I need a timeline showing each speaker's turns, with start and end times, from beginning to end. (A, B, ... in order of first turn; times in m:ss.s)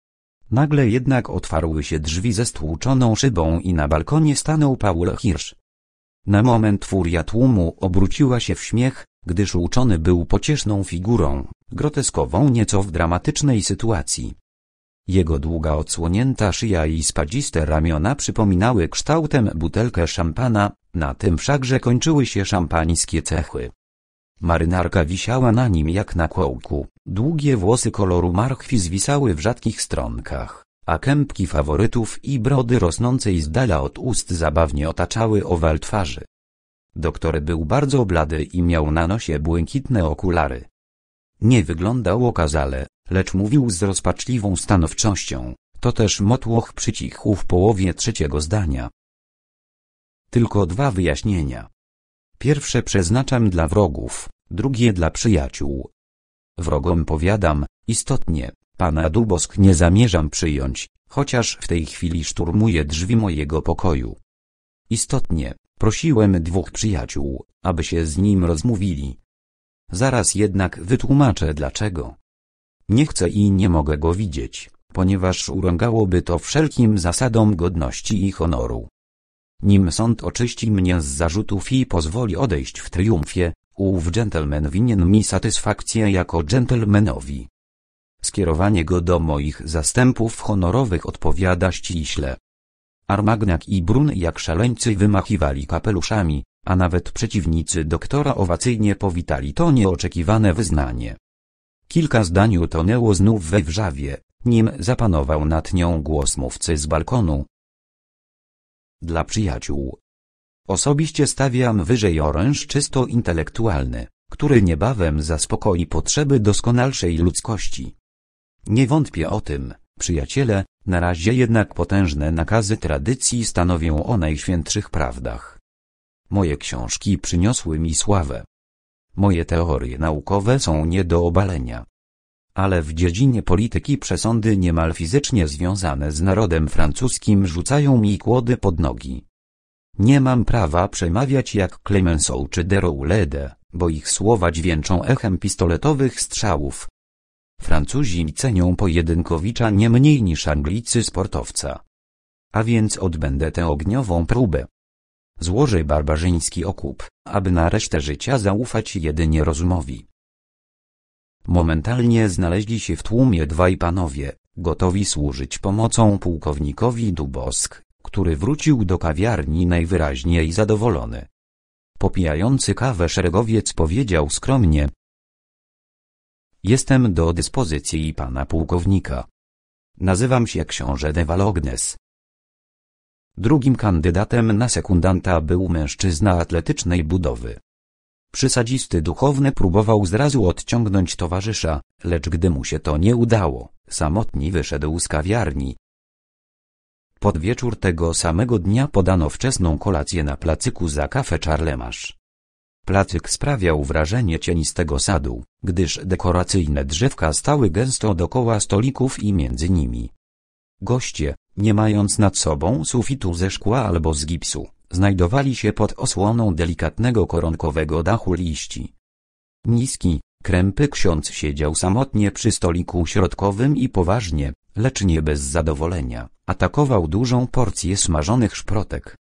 0:00.5-0:05.6 A
0:06.3-0:14.4 A
0:15.1-0:23.7 A
0:24.4-0:36.3 A
0:37.0-0:40.7 A
0:41.4-0:48.9 A
0:50.3-0:51.7 A
0:52.4-0:55.9 A
0:56.6-1:04.2 A
1:04.9-1:09.2 A
1:09.9-1:12.2 A
1:12.9-1:18.9 A
1:19.6-1:27.5 A
1:28.2-1:32.4 A
1:33.1-1:41.2 A
1:41.9-1:47.5 A
1:49.0-1:50.0 A
1:50.7-1:58.0 A
1:58.6-2:05.6 A
2:06.3-2:08.5 A
2:09.2-2:11.9 A
2:12.6-2:19.2 A
2:20.0-2:26.9 A
2:27.6-2:31.8 A
2:32.5-2:34.7 A
2:35.4-2:40.1 A
2:41.4-2:51.3 A
2:52.0-2:54.9 A
2:56.6-2:59.3 A
3:00.0-3:02.0 A
3:03.4-3:07.6 A
3:08.3-3:15.8 A
3:17.2-3:22.2 A
3:22.9-3:30.1 A
3:30.8-3:38.9 A
3:39.6-3:49.2 A